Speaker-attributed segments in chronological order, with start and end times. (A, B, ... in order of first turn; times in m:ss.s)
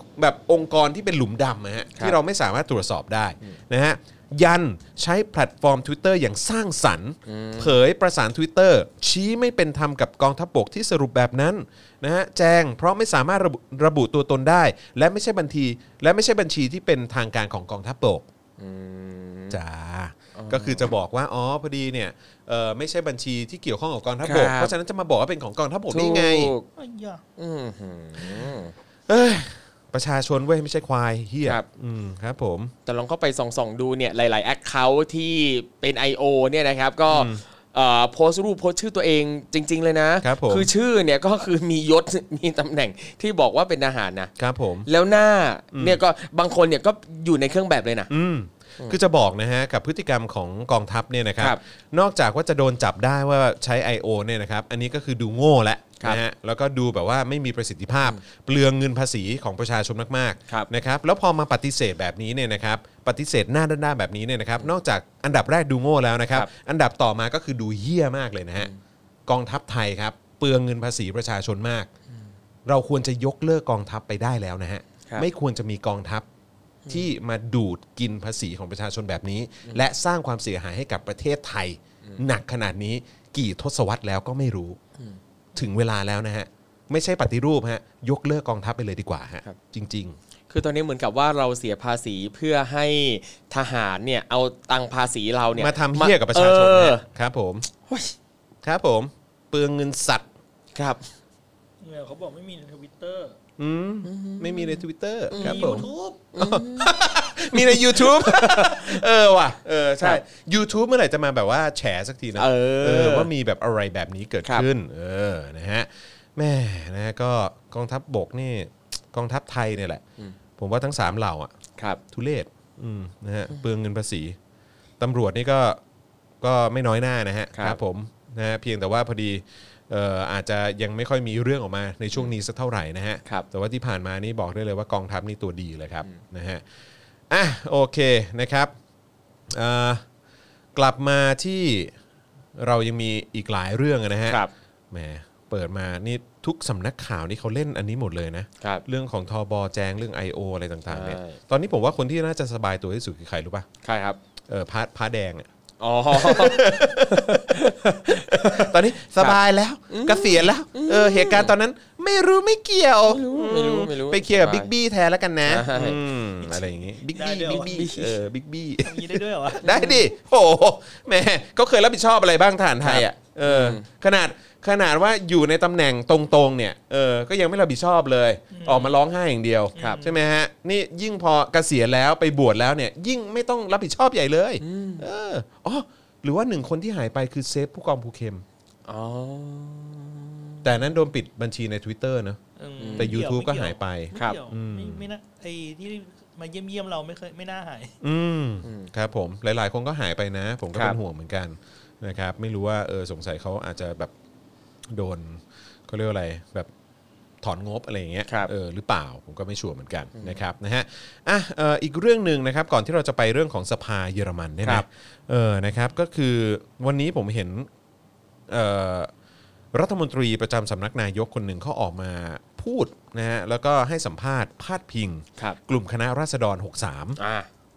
0:00.2-0:18.3 A
0:07.3-0:07.7 B
0:18.6-0:19.6 B
0:19.5-0:26.5 A
0:20.4-0:20.9 B
0:24.2-0:24.7 B
0:25.9-0:26.6 B
0:26.8-0:27.2 C
0:27.4-0:28.7 B
0:28.2-0:28.5 A
0:29.1-0:32.7 A
0:32.9-0:44.3 B
0:37.1-0:37.4 A
0:40.2-0:40.7 A
0:44.4-0:44.9 A
0:44.9-0:48.1 B
0:45.7-0:46.0 A
0:48.1-1:08.7 A
1:09.3-1:11.9 A
1:12.7-1:16.3 A
1:16.9-1:24.8 A
1:25.6-1:30.2 A
1:30.5-1:37.0 B
1:35.6-1:37.7 A
1:37.9-1:38.2 B
1:38.6-1:40.3 A
1:40.8-1:41.1 B
1:41.8-1:43.4 C
1:43.6-2:00.0 A
1:44.0-1:46.9 B
1:45.3-1:46.2 C
1:47.5-1:49.0 B
1:52.4-1:53.3 B
2:00.6-2:01.5 A
2:02.1-2:04.4 A
2:05.0-2:05.8 A
2:06.4-2:16.6 A
2:17.3-2:18.7 A
2:19.5-2:20.0 A
2:20.8-2:21.9 A
2:22.6-2:33.7 A
2:30.9-2:31.4 B
2:33.8-2:34.2 B
2:34.5-2:35.5 A
2:35.8-2:39.4 B
2:36.1-3:08.4 A
2:39.9-2:41.5 B
2:43.0-2:44.7 B
2:45.4-2:46.6 B
2:47.1-2:48.0 C
2:47.5-2:48.2 B
2:48.8-2:49.8 C
2:49.6-2:50.0 B
2:52.8-2:53.8 B
2:58.5-2:59.0 C
2:59.8-3:00.2 C
3:04.6-3:05.1 B
3:08.9-3:10.7 B
3:10.6-3:12.4 A
3:12.6-3:18.0 C
3:12.8-3:13.1 B
3:12.9-3:15.0 A
3:18.0-3:24.1 A
3:18.6-3:18.9 B
3:24.9-3:26.7 A
3:27.4-3:37.7 A
3:38.5-3:39.1 A
3:39.7-3:47.2 A
3:47.2-3:47.5 B